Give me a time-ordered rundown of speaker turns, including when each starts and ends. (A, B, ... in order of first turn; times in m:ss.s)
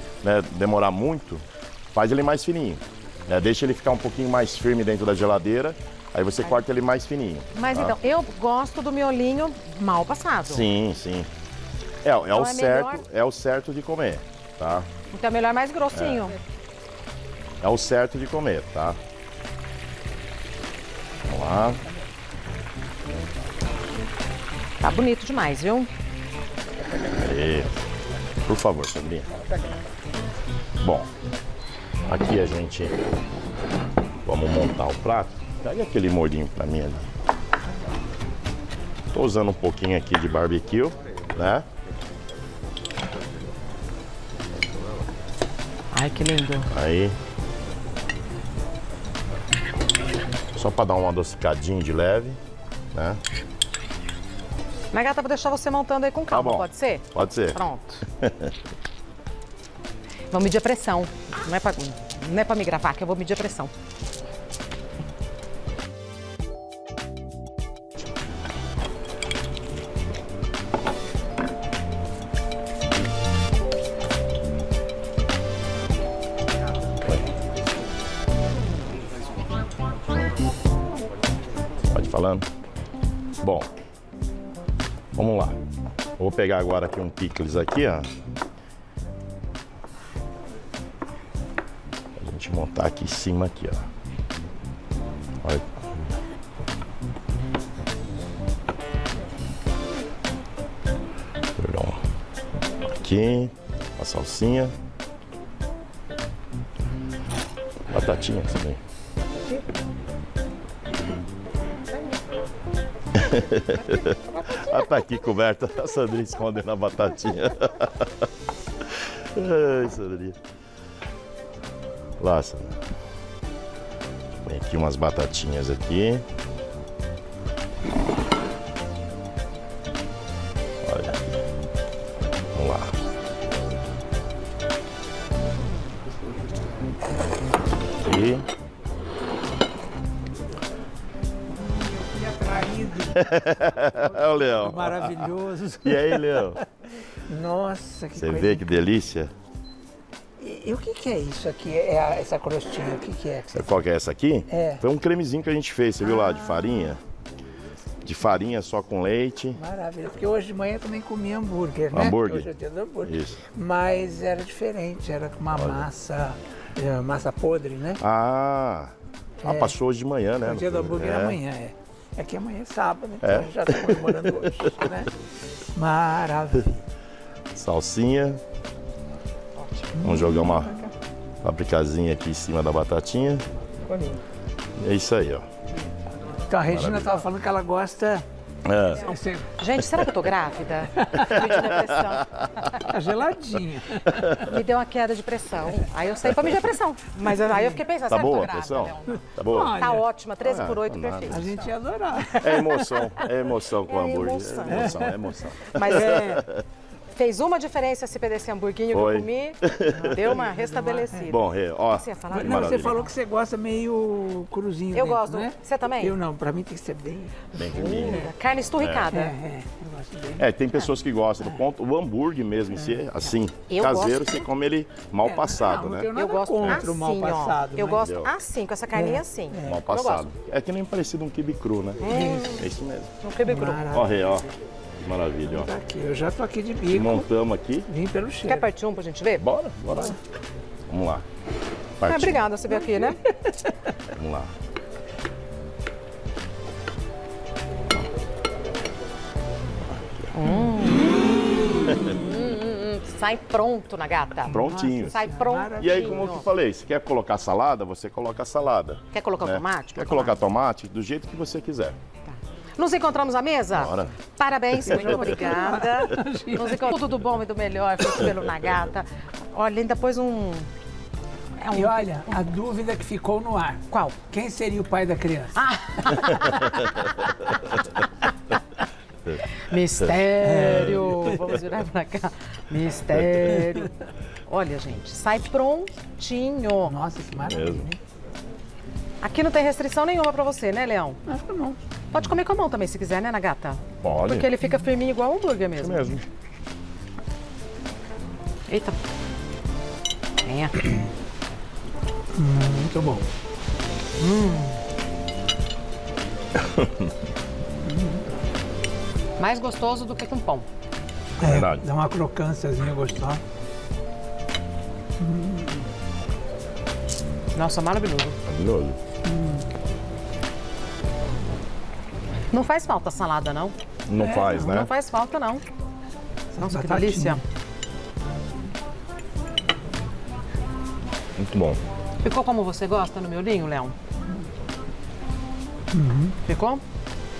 0:00.2-0:08.0 A
0:07.5-0:10.7 B
0:10.5-0:11.3 A
0:12.0-0:14.9 A
0:12.3-0:13.0 B
0:15.1-0:16.4 B
0:15.9-0:16.3 A
0:17.6-0:19.0 A
0:21.3-0:21.8 A
0:24.8-0:25.9 B
0:27.1-0:27.7 A
0:28.4-0:29.3 A
0:30.8-0:31.1 A
0:32.1-0:33.0 A
0:34.2-0:37.1 A
0:39.1-0:41.7 A
0:45.9-0:46.7 B
0:46.7-0:47.2 A
0:50.6-0:52.4 A
0:52.9-0:53.2 A
0:54.9-0:58.0 B
0:56.3-0:57.6 A
0:58.1-0:58.5 A
1:00.3-1:03.7 B
1:21.9-1:22.5 A
1:23.4-1:23.7 A
1:25.1-1:25.6 A
1:26.2-1:28.1 A
1:32.2-1:33.9 A
1:35.4-1:36.2 A
1:41.6-1:42.0 A
1:43.0-1:44.8 A
1:47.9-1:48.8 A
1:53.2-1:58.1 A
1:59.3-2:00.4 A
2:02.2-2:02.8 A
2:04.4-2:06.2 A
2:10.8-2:11.4 A
2:12.5-2:13.0 A
2:18.0-2:18.5 A
2:21.9-2:23.3 C
2:23.1-2:25.3 A
2:23.9-2:26.6 C
2:25.8-2:26.6 A
2:27.3-2:28.7 C
2:28.2-2:29.3 A
2:30.4-2:33.7 C
2:33.5-2:37.0 A
2:34.5-2:34.8 C
2:36.1-2:36.9 C
2:38.0-2:39.6 A
2:39.6-2:48.0 C
2:41.9-2:42.5 A
2:43.0-2:43.4 A
2:45.5-2:45.9 A
2:48.0-2:51.4 A
2:49.4-2:49.8 C
2:50.4-2:55.1 C
2:53.2-2:54.7 A
2:55.8-2:56.8 C
2:57.5-2:58.4 A
3:00.0-3:00.9 C
3:00.0-3:00.8 A
3:01.4-3:03.4 A
3:04.8-3:05.5 A
3:06.5-3:08.2 C
3:06.7-3:07.1 A
3:08.6-3:09.1 A
3:09.0-3:09.5 C
3:09.6-3:12.8 B
3:11.0-3:11.4 C
3:11.3-3:12.4 A
3:12.9-3:14.4 C
3:14.4-3:21.6 B
3:17.4-3:17.8 C
3:18.1-3:19.9 A
3:19.4-3:20.1 C
3:20.4-3:21.4 A
3:21.3-3:23.3 C
3:22.4-3:26.5 A
3:23.9-3:25.1 B
3:24.7-3:26.4 C
3:25.7-3:26.4 B
3:27.2-3:33.1 B
3:28.9-3:30.4 A
3:29.9-3:31.4 C
3:31.3-3:33.0 A
3:32.3-3:38.3 C
3:34.9-3:36.2 B
3:37.5-3:39.1 A
3:37.8-3:39.4 B
3:39.1-3:40.4 C
3:40.4-3:46.1 A
3:43.7-3:44.5 B
3:45.2-3:48.0 C
3:46.1-3:50.3 B
3:47.9-3:48.3 A
3:49.0-3:49.9 C
3:49.6-3:53.1 A
3:52.0-3:52.6 B
3:52.0-3:52.6 C
3:53.2-3:54.0 B
3:53.4-3:54.5 C
3:53.9-3:54.5 A
3:55.0-3:55.7 A
3:55.4-3:57.3 C
3:56.9-3:57.9 A
3:57.9-3:58.7 C
3:58.4-3:59.4 B
3:59.4-4:00.2 A
4:00.9-4:01.2 A
4:02.0-4:02.5 A
4:02.1-4:03.2 B
4:02.7-4:03.1 C
4:04.1-4:04.5 A
4:09.9-4:10.3 A
4:10.4-4:11.1 B
4:12.0-4:16.4 B
4:14.5-4:22.0 A
4:14.5-4:16.4 C
4:19.1-4:20.4 B
4:22.3-4:30.7 B
4:23.7-4:24.1 A
4:24.8-4:25.5 A
4:24.8-4:26.9 C
4:31.6-4:32.4 B
4:31.7-4:36.1 C
4:33.9-4:34.2 B
4:35.6-4:37.4 B
4:39.6-4:43.9 B
4:40.4-4:41.4 C
4:44.5-4:47.0 B
4:46.8-4:48.0 C
4:47.4-4:47.9 A
4:49.2-4:51.2 B
4:51.3-4:51.8 C
4:52.1-4:56.2 B
4:54.0-4:54.5 A
4:55.8-4:56.2 A
4:58.7-4:59.0 B
5:00.5-5:00.8 B
5:02.4-5:03.2 C
5:04.2-5:04.8 B
5:06.6-5:07.1 A
5:07.9-5:08.2 C
5:09.4-5:10.7 B
5:11.4-5:13.4 C
5:11.4-5:11.9 A
5:15.2-5:15.8 C
5:17.6-5:18.4 B
5:18.5-5:19.0 A
5:19.3-5:19.6 C
5:22.5-5:23.7 B
5:24.1-5:24.9 A
5:24.2-5:24.8 C
5:24.3-5:25.6 B
5:26.5-5:27.4 C
5:26.6-5:27.4 B
5:31.4-5:31.8 A
5:32.2-5:34.0 B
5:35.9-5:36.4 C
5:36.4-5:36.8 B